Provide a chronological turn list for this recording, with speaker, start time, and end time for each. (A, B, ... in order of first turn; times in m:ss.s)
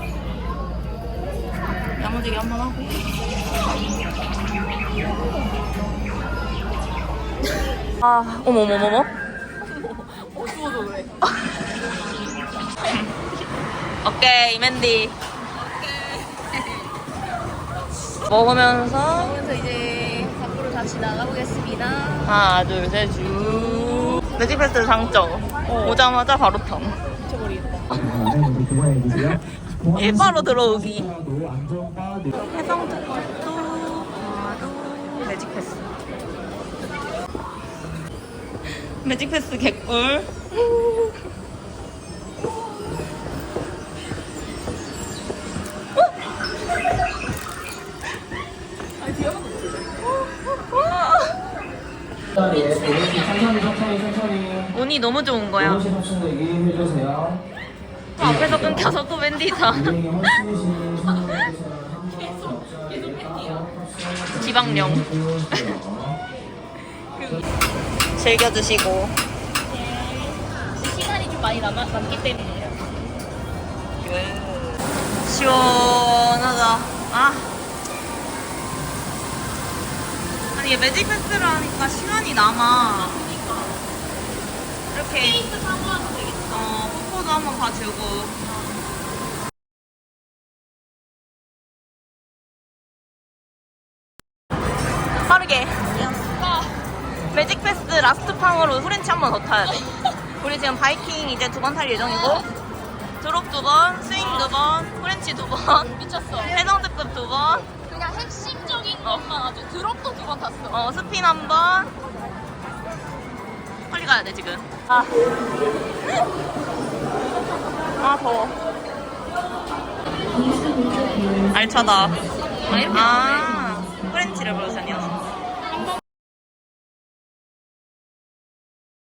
0:02.0-0:03.0 A
0:08.0-0:09.1 A
0:09.6-0:11.3 B
0:14.0-0:15.2 A
0:15.5-0:16.9 B
0:18.2-0:19.4 A
0:19.2-0:22.3 B
0:22.2-0:28.2 A
0:23.9-0:24.2 B
0:25.7-0:26.0 B
0:27.4-0:27.8 B
0:28.0-0:29.3 C
0:29.1-0:31.2 A
0:30.0-0:32.3 C
0:32.3-0:35.9 A
0:39.0-0:40.9 A
0:49.2-0:49.8 B
0:50.8-0:51.2 A
0:52.4-0:53.7 B
0:52.5-0:54.7 C
0:54.7-0:56.0 A
0:55.9-0:57.4 C
0:58.2-1:00.4 A
0:59.9-1:03.0 C
1:00.8-1:03.8 B
1:03.7-1:06.2 C
1:04.3-1:05.9 A
1:07.2-1:07.4 B
1:08.2-1:09.2 A
1:09.7-1:12.9 B
1:14.0-1:17.5 A
1:20.6-1:23.3 A
1:22.8-1:23.7 B
1:24.9-1:25.5 A
1:25.2-1:26.7 B
1:26.5-1:28.4 A
1:35.2-1:35.9 A
1:36.2-1:36.7 B
1:37.3-1:39.9 A
1:40.4-1:42.5 A
1:42.2-1:42.4 B
1:43.2-1:47.7 A
1:44.1-1:44.6 B
1:45.8-1:46.6 B
1:47.8-1:50.8 B
1:50.7-1:51.9 A
1:53.9-1:55.2 A
1:58.0-1:58.6 A
2:01.3-2:05.3 A
2:02.7-2:03.9 B